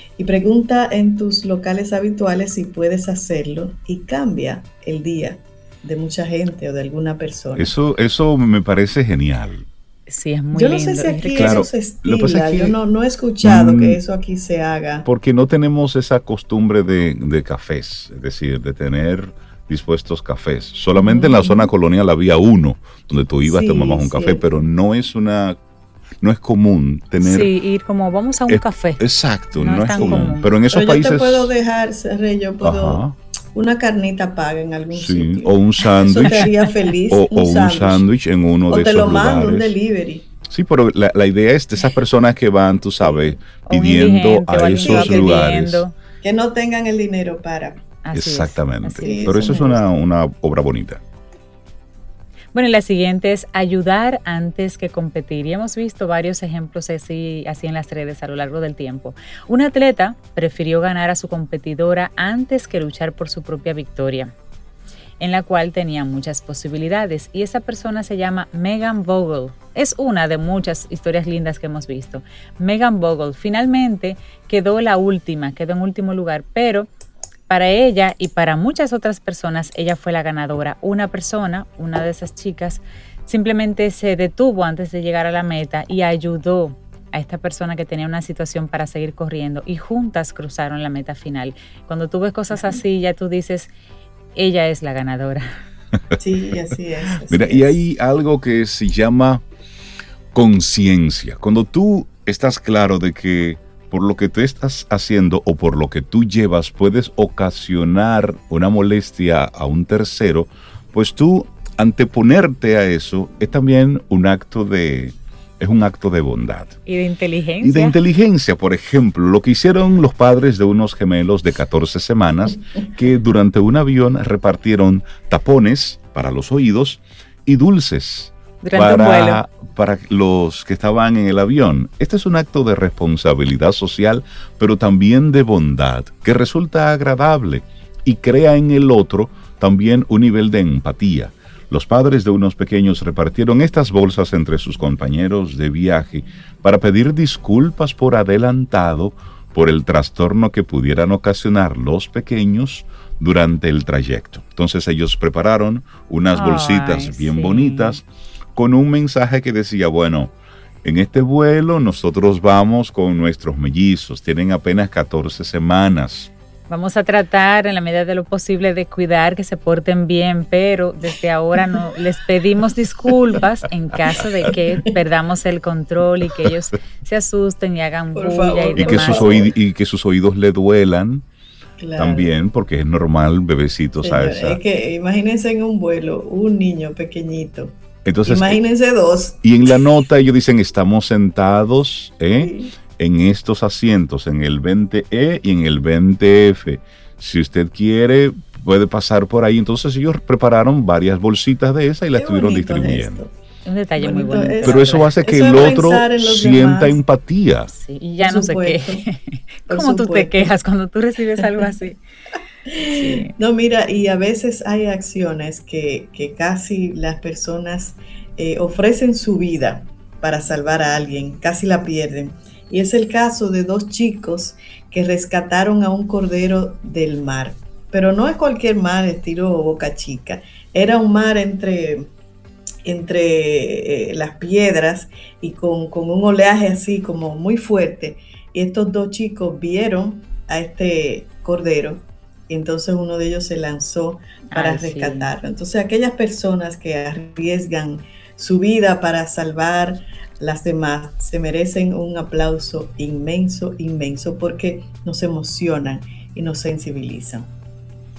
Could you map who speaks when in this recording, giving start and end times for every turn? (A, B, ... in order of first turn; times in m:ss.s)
0:00.2-0:07.7 A
0:07.6-0:09.7 B
0:10.1-0:11.7 C
0:10.5-0:15.1 A
0:11.4-0:12.8 B
0:13.4-0:14.0 B
0:15.1-0:25.6 B
0:21.0-0:21.7 A
0:23.4-0:24.5 A
0:26.2-0:27.5 B
0:27.2-0:29.0 C
0:28.5-0:31.5 B
0:29.6-0:30.5 C
0:30.0-0:33.0 A
0:32.6-0:33.2 B
0:33.5-0:38.0 A
0:34.9-0:36.5 B
0:37.1-0:39.8 B
0:38.7-0:40.3 A
0:40.5-0:45.8 B
0:43.7-0:45.9 C
0:44.8-0:45.5 A
0:46.2-0:47.8 A
0:48.0-0:49.6 C
0:48.1-0:51.0 B
0:49.0-0:49.8 A
0:52.5-1:04.3 C
1:05.2-1:16.9 C
1:17.5-1:33.7 C
1:34.4-1:35.6 C
1:36.2-1:37.8 A
1:37.3-1:39.4 B
1:40.3-1:56.8 B
1:56.8-1:58.0 C
1:57.6-2:46.3 B
2:08.6-2:09.4 C
2:36.3-2:38.0 C
2:46.7-2:59.4 C
2:58.1-2:59.5 A
2:58.8-3:01.2 B
3:01.8-3:02.3 A
3:02.0-3:04.6 B
3:04.0-3:09.4 A
3:08.0-3:08.6 B
3:09.4-3:23.2 B
3:12.4-3:12.7 A
3:22.2-3:23.3 A
3:23.6-3:25.1 C
3:24.0-3:27.0 A
3:24.6-3:27.7 B
3:27.7-3:32.0 C
3:28.2-3:29.0 A
3:29.7-3:30.5 A
3:32.7-3:52.1 A
3:32.9-3:33.3 C
3:52.8-4:17.5 A
4:04.5-4:05.3 C